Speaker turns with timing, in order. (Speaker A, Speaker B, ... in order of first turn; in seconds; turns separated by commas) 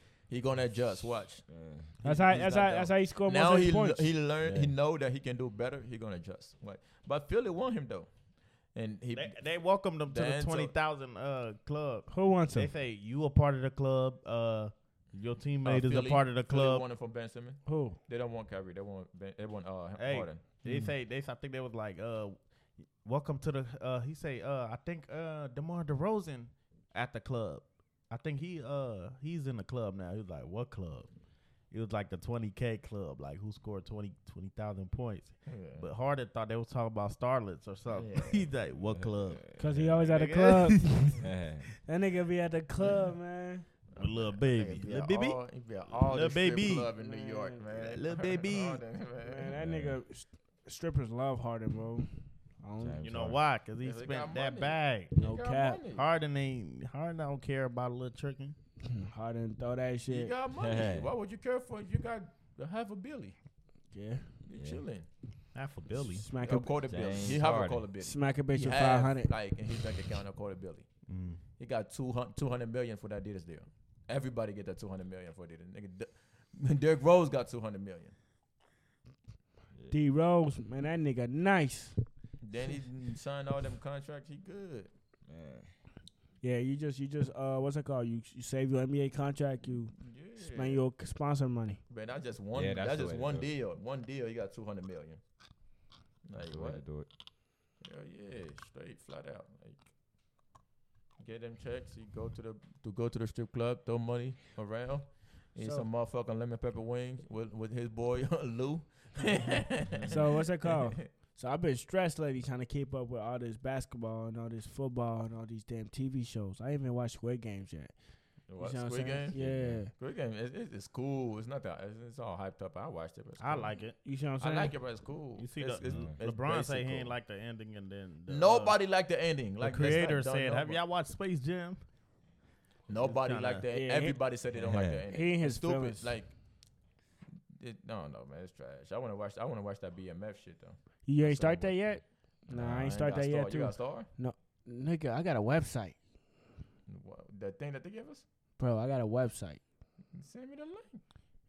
Speaker A: 0.3-1.5, Speaker B: 1.5-2.0, Speaker C: 2.0-4.1, Speaker A: 2.1-8.1, Speaker D: 4.4-4.7, Speaker A: 8.7-9.4, Speaker D: 9.2-16.8, Speaker A: 10.1-10.7, Speaker C: 12.1-12.7, Speaker A: 15.6-20.4, Speaker C: 17.7-18.0, Speaker D: 20.0-22.4, Speaker C: 20.6-20.9, Speaker D: 23.0-31.1, Speaker D: 31.7-41.1, Speaker A: 35.5-35.9, Speaker A: 37.9-38.5, Speaker B: 38.9-40.0, Speaker C: 39.6-41.2, Speaker B: 41.2-41.7, Speaker C: 41.8-43.7, Speaker A: 43.9-49.5, Speaker D: 44.0-46.9, Speaker C: 47.0-47.6, Speaker D: 47.7-48.8, Speaker C: 49.2-52.1, Speaker B: 49.5-50.0, Speaker C: 52.6-53.0, Speaker B: 52.8-53.4, Speaker D: 53.0-55.1, Speaker A: 53.8-56.1, Speaker C: 55.2-55.8, Speaker D: 55.9-58.5, Speaker C: 58.9-60.3, Speaker A: 60.1-63.4, Speaker B: 60.6-61.1, Speaker C: 63.9-64.3, Speaker A: 64.5-65.1, Speaker B: 64.6-64.8, Speaker D: 65.5-66.2, Speaker C: 66.0-66.7, Speaker A: 66.4-70.9, Speaker B: 66.9-67.8, Speaker C: 68.0-69.3, Speaker D: 71.1-71.4, Speaker A: 71.6-78.1, Speaker C: 79.9-82.0, Speaker A: 82.4-84.9, Speaker B: 85.3-85.7, Speaker C: 86.4-91.8, Speaker A: 89.9-90.8, Speaker A: 91.9-95.2, Speaker B: 92.5-93.5, Speaker A: 96.2-96.8, Speaker B: 96.5-97.1, Speaker A: 97.8-99.8, Speaker A: 101.2-111.1, Speaker C: 105.6-105.9, Speaker C: 110.1-119.9, Speaker A: 118.5-123.8, Speaker B: 119.3-119.9, Speaker D: 123.4-124.0, Speaker C: 124.0-124.8, Speaker A: 124.4-127.1, Speaker D: 125.4-128.8, Speaker B: 125.9-126.2, Speaker A: 128.3-130.8, Speaker D: 129.6-131.8, Speaker A: 132.9-136.4, Speaker D: 132.9-133.6, Speaker C: 133.7-134.2, Speaker B: 134.5-135.0, Speaker C: 135.1-136.1, Speaker A: 137.6-144.1, Speaker C: 141.1-146.0, Speaker A: 146.9-148.2, Speaker C: 148.6-149.6, Speaker A: 150.1-151.0